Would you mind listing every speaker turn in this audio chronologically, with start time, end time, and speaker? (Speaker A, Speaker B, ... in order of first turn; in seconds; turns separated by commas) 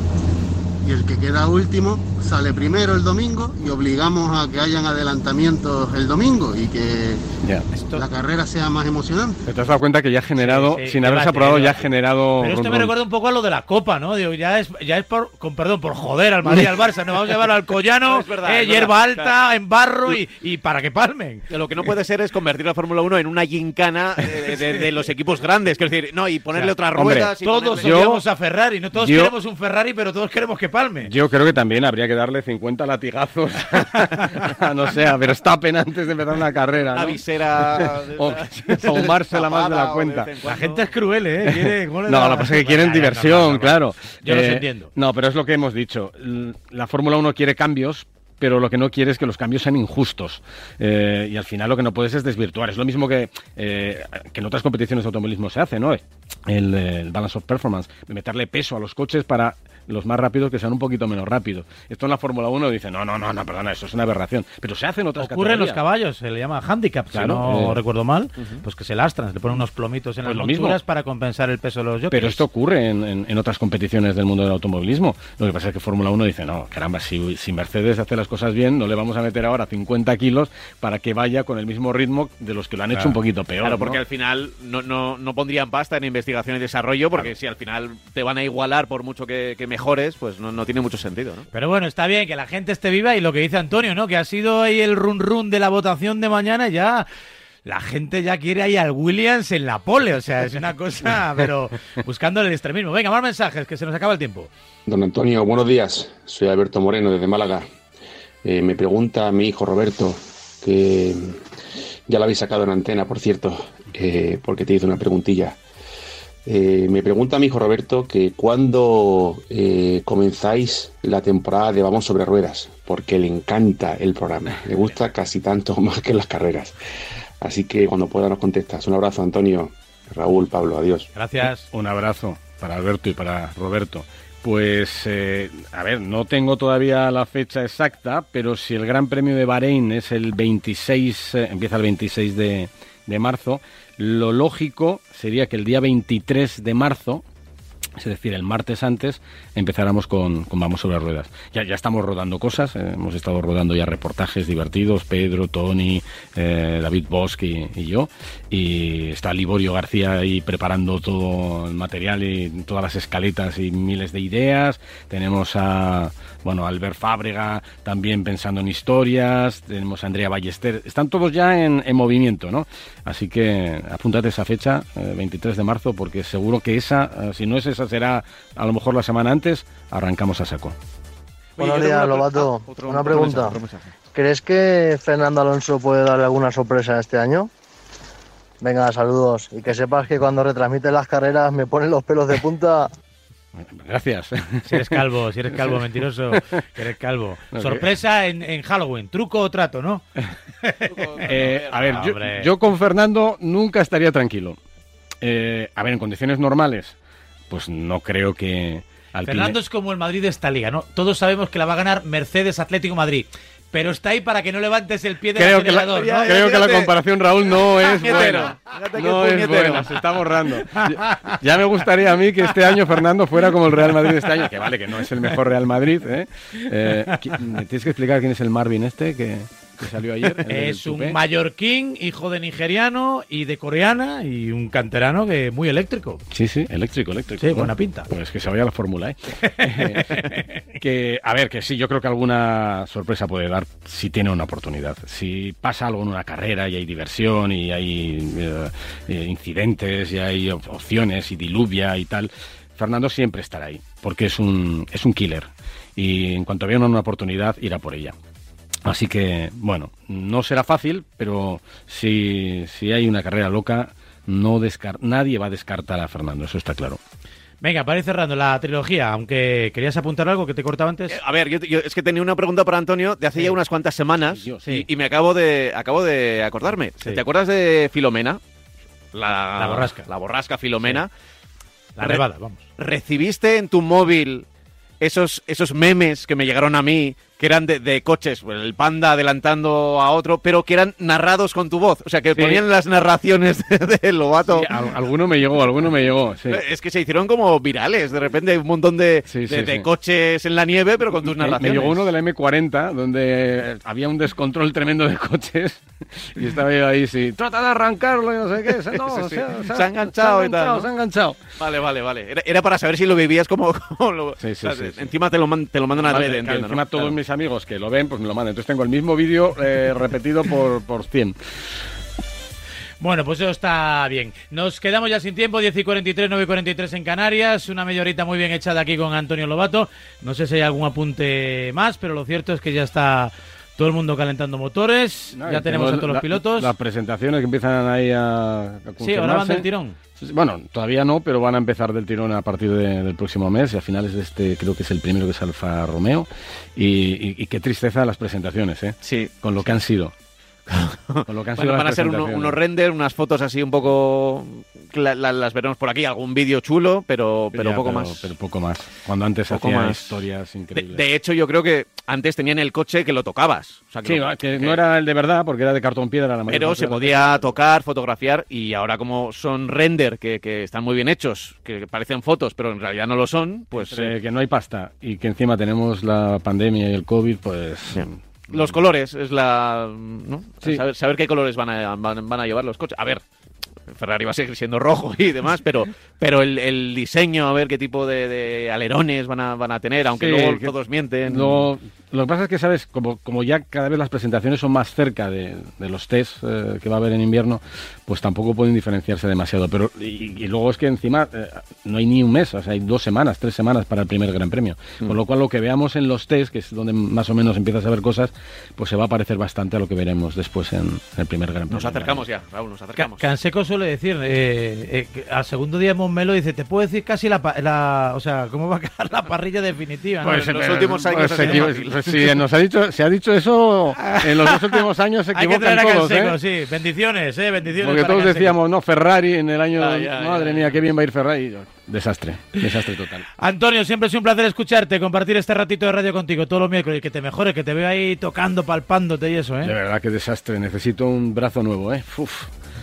Speaker A: 0.8-7.3, Speaker B: 7.7-8.1, Speaker A: 7.9-9.4, Speaker C: 9.4-12.9, Speaker B: 10.4-11.9, Speaker B: 12.4-21.5, Speaker D: 18.1-19.3, Speaker D: 21.5-28.1, Speaker C: 26.9-28.2, Speaker B: 27.4-31.1, Speaker C: 28.9-29.3, Speaker C: 31.0-40.3, Speaker D: 36.9-40.9, Speaker B: 40.5-44.9, Speaker C: 41.5-65.8, Speaker B: 65.2-72.4, Speaker C: 67.1-67.8, Speaker C: 70.2-70.8, Speaker C: 72.1-84.0, Speaker B: 82.9-83.2, Speaker D: 83.6-91.5, Speaker B: 91.5-97.1, Speaker B: 97.7-104.5, Speaker E: 104.9-107.7, Speaker E: 108.4-111.4, Speaker E: 112.1-115.6, Speaker E: 116.5-126.7, Speaker E: 127.4-131.1, Speaker B: 131.1-131.7, Speaker C: 131.4-147.2, Speaker C: 148.0-180.8, Speaker D: 181.6-183.9, Speaker F: 181.6-183.6, Speaker F: 184.1-187.5, Speaker F: 188.6-192.9, Speaker C: 193.6-195.8, Speaker B: 194.7-200.0, Speaker C: 196.3-196.6, Speaker C: 197.5-197.9, Speaker B: 200.6-201.2, Speaker D: 200.9-202.1, Speaker C: 201.2-204.6, Speaker B: 201.9-202.5, Speaker C: 205.2-207.0, Speaker C: 207.5-209.6, Speaker B: 209.3-216.4, Speaker C: 215.4-231.2, Speaker D: 216.0-216.9, Speaker D: 217.8-220.0, Speaker B: 220.7-221.3, Speaker B: 230.5-236.2, Speaker C: 236.3-258.1, Speaker B: 237.4-238.1, Speaker B: 239.5-240.5, Speaker C: 258.9-267.0, Speaker B: 267.6-271.2, Speaker D: 271.1-278.4, Speaker C: 274.2-274.9, Speaker D: 279.1-281.1, Speaker B: 279.6-280.1, Speaker B: 282.0-282.6, Speaker D: 282.8-284.5, Speaker D: 285.0-294.7, Speaker C: 292.3-292.6, Speaker C: 294.4-296.6, Speaker D: 296.5-302.0, Speaker C: 299.3-299.9, Speaker C: 301.4-311.5, Speaker D: 308.9-310.9, Speaker D: 311.6-317.1, Speaker C: 314.4-315.1, Speaker C: 315.9-321.4, Speaker B: 323.0-336.7, Speaker C: 335.3-350.1, Speaker B: 339.0-340.0, Speaker D: 349.0-349.3, Speaker D: 350.7-358.3, Speaker C: 351.3-352.6, Speaker C: 357.5-361.0, Speaker D: 359.5-360.2, Speaker D: 360.7-364.8, Speaker C: 364.0-367.5, Speaker D: 366.5-374.1, Speaker C: 373.8-378.6, Speaker D: 377.9-383.2, Speaker D: 383.9-391.7, Speaker C: 390.2-390.7, Speaker C: 391.3-412.2, Speaker D: 411.7-413.3, Speaker B: 413.0-420.4, Speaker C: 420.2-426.4, Speaker D: 420.3-422.1, Speaker B: 421.2-421.7, Speaker B: 424.1-424.8, Speaker B: 425.3-428.6, Speaker C: 427.7-433.3, Speaker D: 429.8-430.8, Speaker B: 433.4-439.7, Speaker C: 439.6-442.5